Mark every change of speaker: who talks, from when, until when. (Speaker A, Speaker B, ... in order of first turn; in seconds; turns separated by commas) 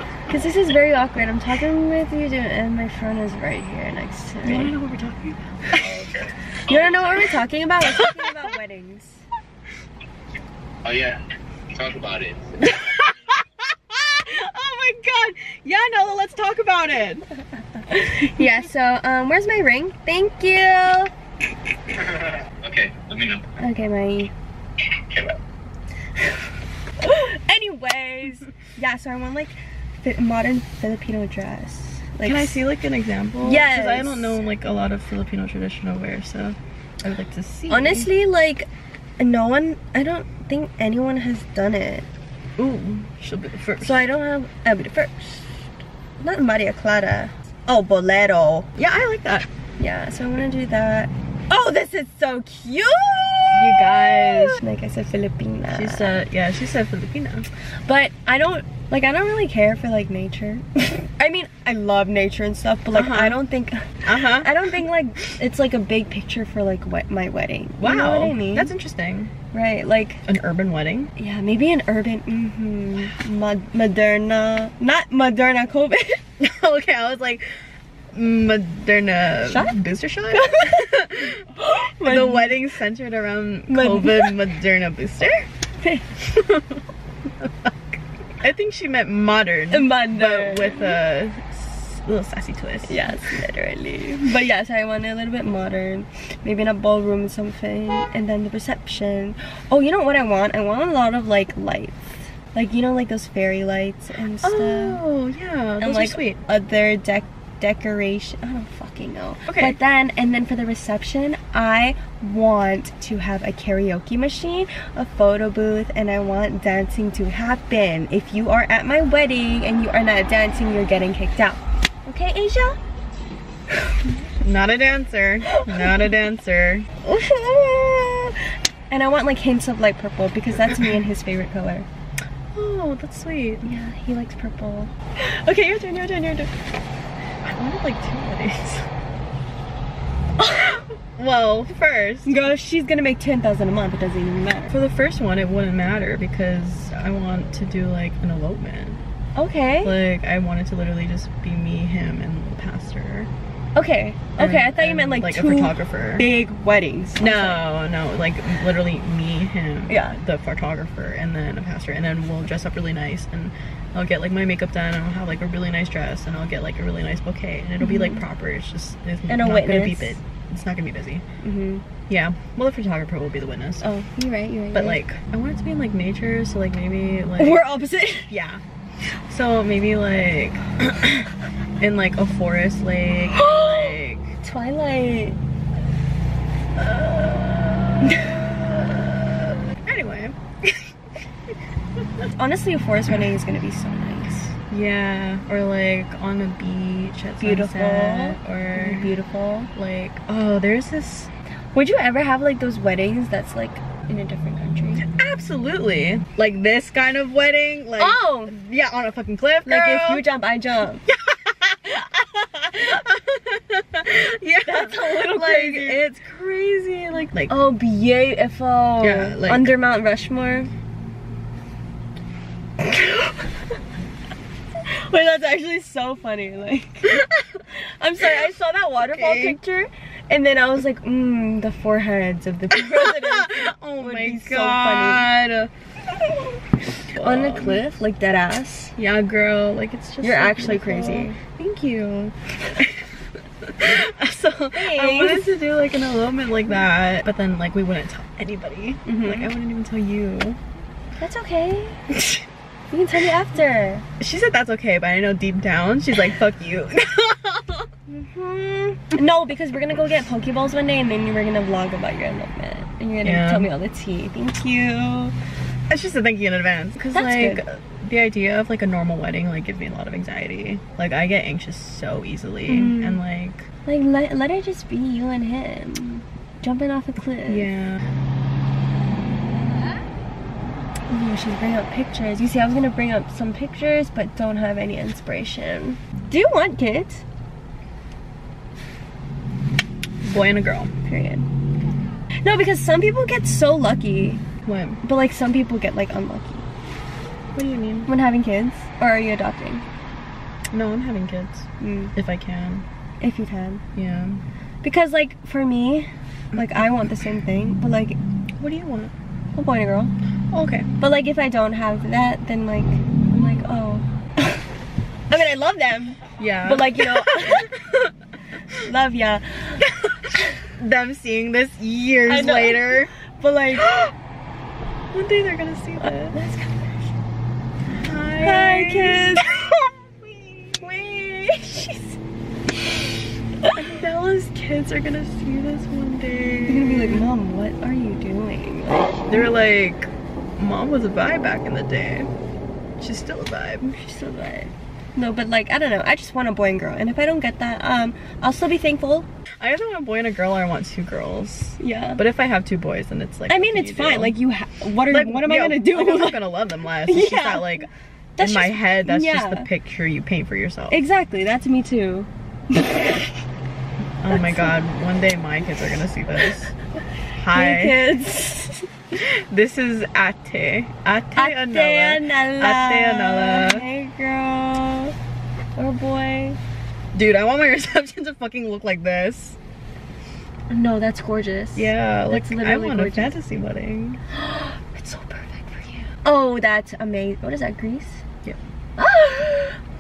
Speaker A: 0.3-4.7, Speaker B: 4.4-6.0, Speaker C: 5.7-7.4, Speaker A: 6.7-9.2, Speaker B: 7.9-8.5, Speaker C: 10.8-11.2, Speaker C: 11.7-12.7, Speaker B: 12.6-17.2, Speaker A: 17.9-21.1, Speaker C: 21.9-23.4, Speaker A: 23.6-24.3, Speaker A: 27.0-32.6, Speaker B: 32.2-38.1, Speaker A: 33.4-34.4, Speaker A: 37.7-42.1, Speaker B: 42.6-44.0, Speaker A: 43.8-45.7, Speaker A: 46.2-48.7, Speaker B: 48.8-49.5, Speaker A: 49.8-56.2, Speaker B: 53.5-54.6, Speaker B: 55.7-57.5, Speaker A: 57.8-68.7, Speaker B: 62.9-63.4, Speaker B: 64.0-64.7, Speaker B: 67.8-69.3, Speaker A: 69.5-70.2, Speaker B: 70.2-71.1, Speaker A: 71.2-76.2, Speaker B: 76.4-77.4, Speaker B: 78.1-81.5, Speaker A: 79.4-82.6, Speaker B: 82.0-85.5, Speaker A: 83.7-84.4, Speaker A: 85.8-86.1, Speaker B: 86.2-86.8, Speaker B: 87.4-93.3, Speaker A: 89.7-91.0, Speaker A: 92.9-105.0, Speaker B: 104.4-106.4, Speaker A: 105.8-122.8, Speaker B: 109.5-109.8, Speaker A: 123.7-124.0, Speaker B: 124.4-126.9, Speaker A: 125.5-126.1, Speaker A: 127.0-131.9, Speaker B: 132.5-133.7, Speaker A: 133.6-136.5, Speaker B: 137.4-138.9, Speaker A: 140.4-140.9, Speaker B: 140.6-142.6, Speaker A: 142.2-144.7, Speaker B: 144.7-149.0, Speaker A: 149.4-149.9, Speaker B: 149.8-153.3, Speaker A: 153.7-157.6, Speaker B: 154.4-156.3, Speaker B: 157.2-171.2, Speaker A: 159.9-160.2, Speaker A: 167.8-168.2, Speaker A: 169.3-170.2, Speaker A: 171.4-171.8, Speaker B: 172.1-173.9, Speaker A: 173.8-175.0, Speaker B: 174.7-177.6, Speaker A: 177.4-178.3, Speaker B: 178.3-178.6, Speaker B: 179.3-181.3, Speaker B: 181.8-184.3, Speaker A: 183.3-185.4, Speaker B: 186.8-190.9, Speaker A: 188.0-188.4, Speaker B: 192.0-192.3, Speaker A: 192.3-194.5, Speaker B: 194.7-199.1, Speaker A: 197.4-199.7, Speaker B: 199.7-201.3, Speaker A: 201.7-205.0, Speaker B: 205.0-210.2, Speaker A: 208.0-208.6, Speaker A: 209.6-211.0, Speaker B: 211.1-217.5, Speaker A: 214.6-216.0, Speaker A: 217.5-220.7, Speaker B: 219.0-219.7, Speaker A: 222.8-223.5, Speaker A: 224.8-235.3, Speaker B: 227.1-227.6, Speaker B: 229.0-229.6, Speaker B: 232.7-235.7, Speaker A: 236.2-238.9, Speaker B: 237.1-237.8, Speaker B: 239.0-250.6, Speaker A: 240.2-241.4, Speaker A: 244.7-245.5, Speaker A: 249.1-249.5, Speaker A: 251.2-252.0, Speaker B: 252.1-252.4, Speaker A: 252.9-254.1, Speaker B: 254.2-257.9, Speaker A: 258.1-265.3, Speaker B: 263.2-263.7, Speaker B: 265.9-273.7, Speaker A: 267.1-267.6, Speaker A: 272.7-273.2, Speaker A: 273.9-277.7, Speaker B: 277.5-278.0, Speaker A: 281.1-287.2, Speaker B: 290.2-290.9, Speaker A: 291.0-291.5, Speaker A: 292.4-294.4, Speaker B: 294.6-295.0, Speaker A: 295.0-296.7, Speaker B: 297.5-298.1, Speaker A: 298.1-299.8, Speaker B: 300.7-302.9, Speaker A: 301.8-302.1, Speaker A: 303.2-303.8, Speaker B: 303.9-304.4, Speaker A: 304.8-308.2, Speaker B: 308.6-309.1, Speaker A: 309.6-310.1, Speaker B: 310.5-310.9, Speaker A: 311.0-314.6, Speaker A: 315.3-317.7, Speaker B: 316.4-318.1, Speaker A: 318.7-320.6, Speaker B: 319.8-323.1, Speaker A: 322.3-323.9, Speaker B: 323.7-324.1, Speaker B: 325.1-326.4, Speaker A: 326.0-327.1, Speaker B: 327.9-330.9, Speaker A: 328.4-329.6, Speaker A: 330.8-332.2, Speaker A: 333.6-333.9, Speaker B: 333.7-337.3, Speaker A: 336.6-339.4, Speaker B: 339.3-342.3, Speaker B: 343.0-343.9, Speaker A: 343.9-349.3, Speaker B: 349.6-354.4, Speaker A: 351.8-352.2, Speaker A: 353.5-357.8, Speaker B: 355.1-357.9, Speaker A: 358.4-359.7, Speaker B: 358.4-361.0, Speaker A: 360.9-363.2, Speaker B: 364.2-366.7, Speaker A: 364.3-364.7, Speaker B: 367.4-368.1, Speaker A: 367.5-368.9, Speaker B: 369.1-373.9, Speaker A: 371.3-375.1, Speaker A: 375.7-376.6, Speaker B: 377.1-379.6, Speaker A: 380.7-383.4, Speaker B: 381.7-384.2, Speaker A: 384.3-388.2, Speaker A: 389.0-389.8